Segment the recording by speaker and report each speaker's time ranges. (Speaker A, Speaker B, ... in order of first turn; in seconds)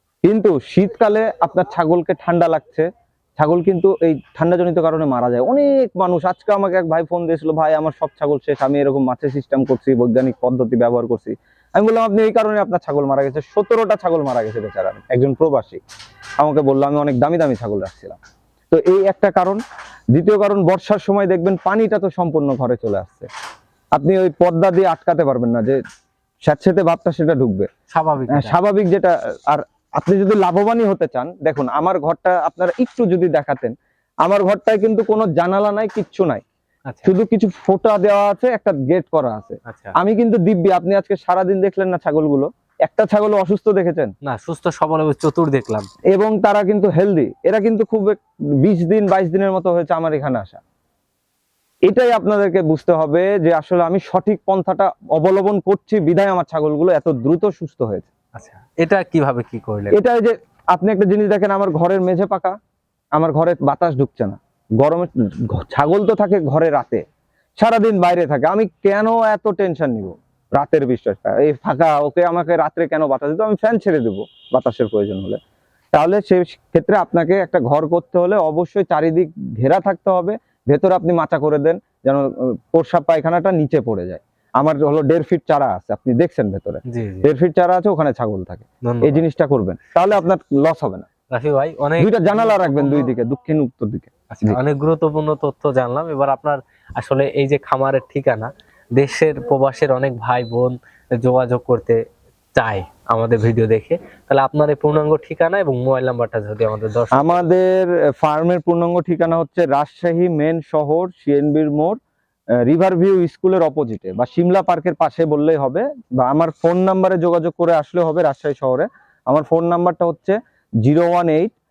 Speaker A: 0.2-15.8, 16.4-18.2, 18.7-19.6, 20.1-23.3, 23.9-25.8, 26.4-27.7, 28.3-33.7, 34.2-36.4, 37.0-44.1, 46.1-50.6, 51.9-58.1, 59.9-62.6, 63.2-67.0, 67.6-75.4, 75.9-91.1, 92.0-94.6, 107.2-112.0, 112.7-121.5
Speaker B: 27.9-28.6, 36.9-37.1, 39.7-39.9, 44.2-45.9, 58.4-60.0, 86.9-87.3, 88.8-89.2, 91.3-93.1, 94.3-102.0, 102.5-107.5